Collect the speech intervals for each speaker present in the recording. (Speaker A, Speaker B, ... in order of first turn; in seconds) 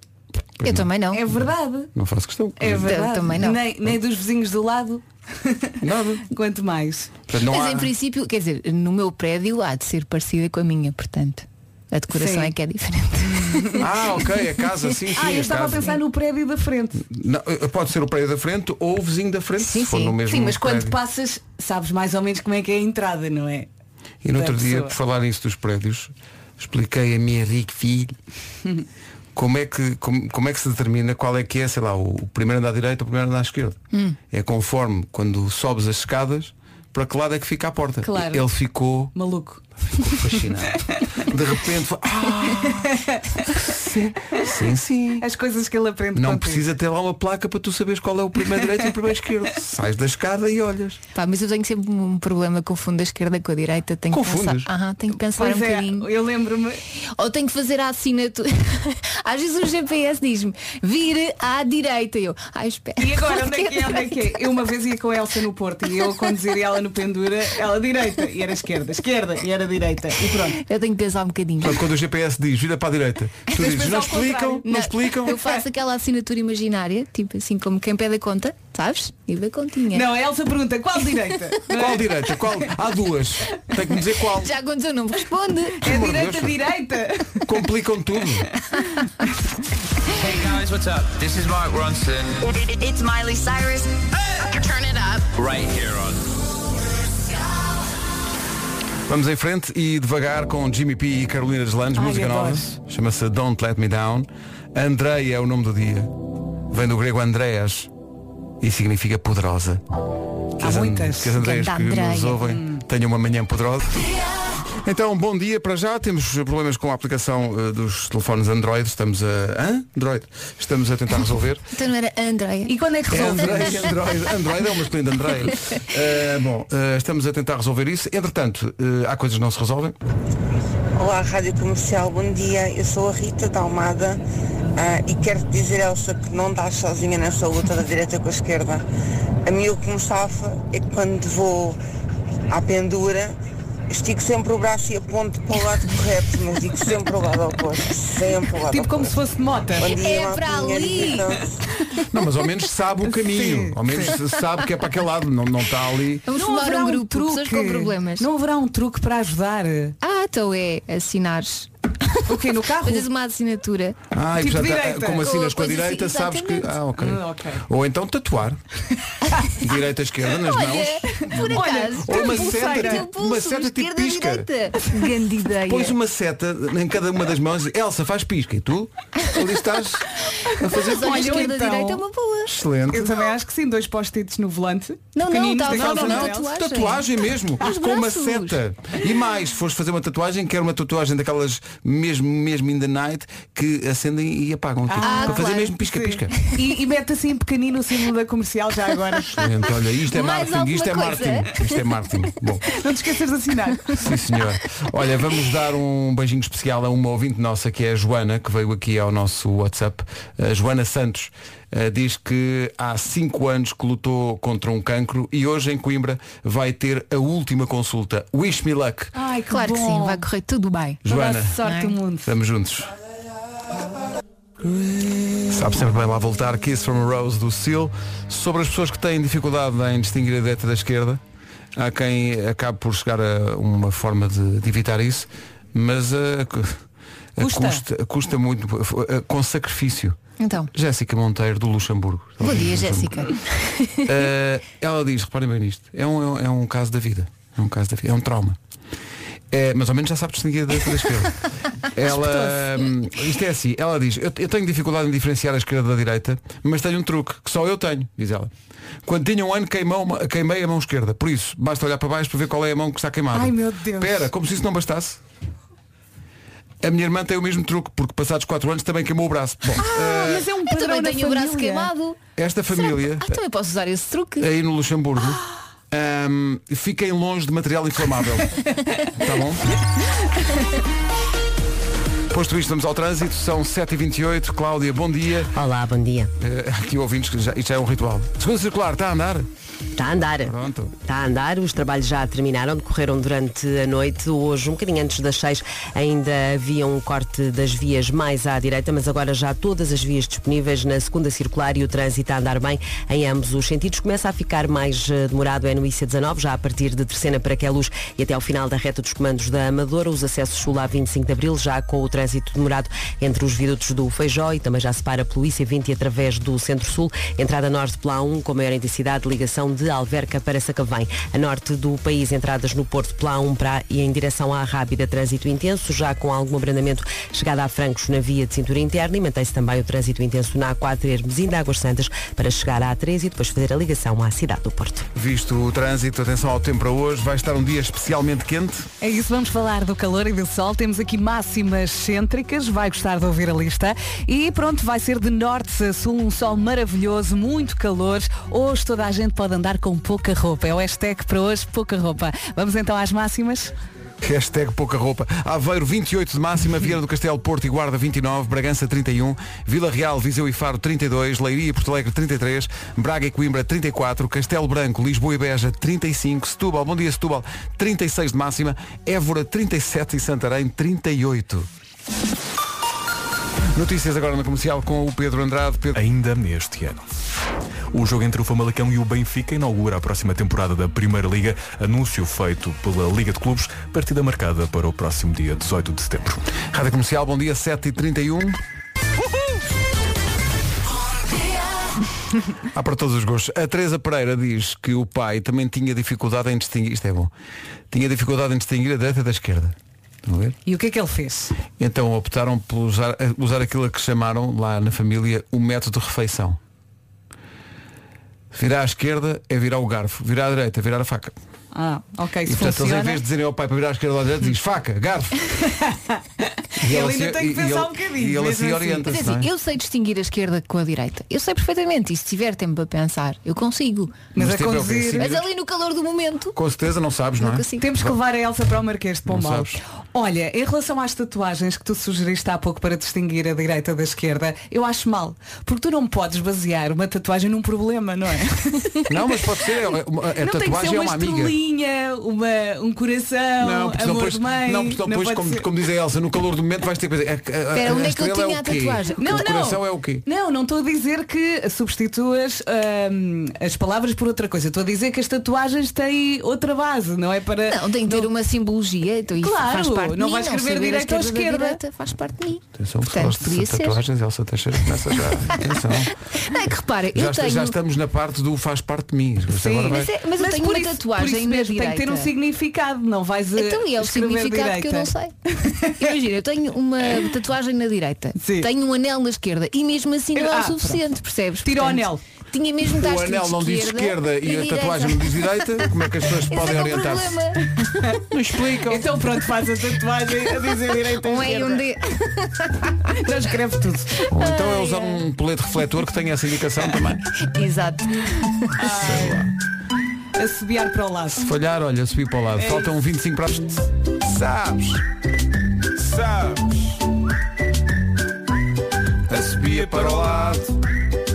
Speaker A: 0.6-0.9, 1.9-3.0, 5.8-6.2, 7.3-7.9, 13.8-15.9, 17.0-20.9, 24.2-28.1, 29.3-33.8, 34.3-39.1, 39.9-43.0, 43.5-45.2, 46.1-51.0, 54.1-54.7, 71.6-75.4, 81.7-84.5, 85.8-86.5, 87.5-88.5, 99.1-106.1, 106.7-107.9, 108.6-109.8, 110.6-113.8, 114.8-121.6, 123.1-130.0, 152.1-156.2, 164.1-168.6, 169.6-174.5, 175.7-180.1, 180.6-181.4, 182.5-183.2, 185.6-196.3, 199.3-202.7, 204.0-219.1, 221.0-221.6, 222.2-222.9, 224.6-231.2, 231.8-236.8, 237.4-240.2, 240.7-243.2, 244.1-248.6, 249.5-251.4, 251.9-258.5, 259.1-265.2, 266.8-270.4, 272.4-273.3, 274.4-278.5, 279.2-279.6, 282.3-285.5, 286.4-289.5, 290.4-290.9, 335.1-338.9, 354.2-371.7, 373.7-375.9, 386.7-388.6, 392.7-397.3, 397.9-399.7, 400.2-400.6, 401.8-406.6, 408.5-411.3, 412.4-415.4, 416.8-419.5, 424.4-425.4, 426.5-428.1, 429.3-429.7, 439.1-441.5, 443.6-450.2, 462.8-466.1, 467.1-470.1, 483.0-487.4, 488.3-489.1, 494.3-497.2, 498.8-499.5, 501.4-505.0, 506.0-506.8, 509.3-510.7
Speaker B: 0.6-1.2, 2.7-3.6, 7.5-13.9, 15.1-15.8, 19.6-20.2, 51.1-56.1, 57.1-64.2, 70.5-71.8, 74.6-80.1, 84.4-85.8, 111.3-112.5, 121.7-122.7, 123.4-123.7, 149.9-151.4, 156.2-158.3, 160.0-161.7, 162.8-164.0, 165.2-166.7, 170.4-175.9, 180.6-182.6, 185.1-188.6, 195.0-195.8, 200.1-201.5, 219.5-221.0, 221.6-221.9, 240.4-240.7, 242.4-244.2, 270.6-272.2, 272.7-274.5, 419.1-424.3, 425.1-426.6, 427.4-427.9, 447.7-449.6, 457.7-464.0, 466.3-467.8, 469.9-472.3, 473.6-475.3, 476.0-485.9, 486.4-487.6, 491.2-493.1, 494.3-495.2, 497.4-498.7
Speaker C: 1.1-1.9, 2.6-5.8, 6.3-7.2, 12.1-12.5, 13.3-13.8, 15.1-17.0, 20.3-23.7, 24.4-25.0, 38.0-38.5, 39.1-39.6, 45.2-46.6, 55.4-56.8, 63.0-70.6, 73.5-74.7, 79.9-82.4, 85.8-87.5, 101.9-102.6, 110.6-111.4, 112.5-112.8, 122.7-124.0, 148.7-149.9, 153.1-154.2, 156.3-159.9, 162.3-163.1, 164.4-165.4, 167.0-167.6, 171.3-173.1, 180.7-182.0, 182.9-186.5, 194.9-199.3, 202.7-204.1, 219.1-220.3, 221.1-222.3, 237.4-237.8, 252.1-252.7, 263.3-264.3, 269.8-271.9, 339.0-353.7, 400.6-401.5, 411.7-413.2, 415.6-419.1, 424.3-425.3, 427.8-438.9, 440.4-445.7, 449.2-458.3, 459.4-461.8, 469.5-476.1, 478.4-478.7, 480.3-481.0, 481.6-482.2, 488.9-491.8, 493.2-494.2, 498.8-499.4, 500.4-501.5, 502.6-502.9
Speaker D: 90.4-92.4, 95.4-96.2
Speaker E: 92.4-95.6
Speaker F: 131.0-134.2, 134.7-138.8, 139.4-141.8, 142.5-143.3, 143.9-149.2, 149.8-151.5
Speaker G: 285.5-286.3, 290.0-290.5, 291.1-335.1
Speaker H: 375.9-377.1, 377.9-386.4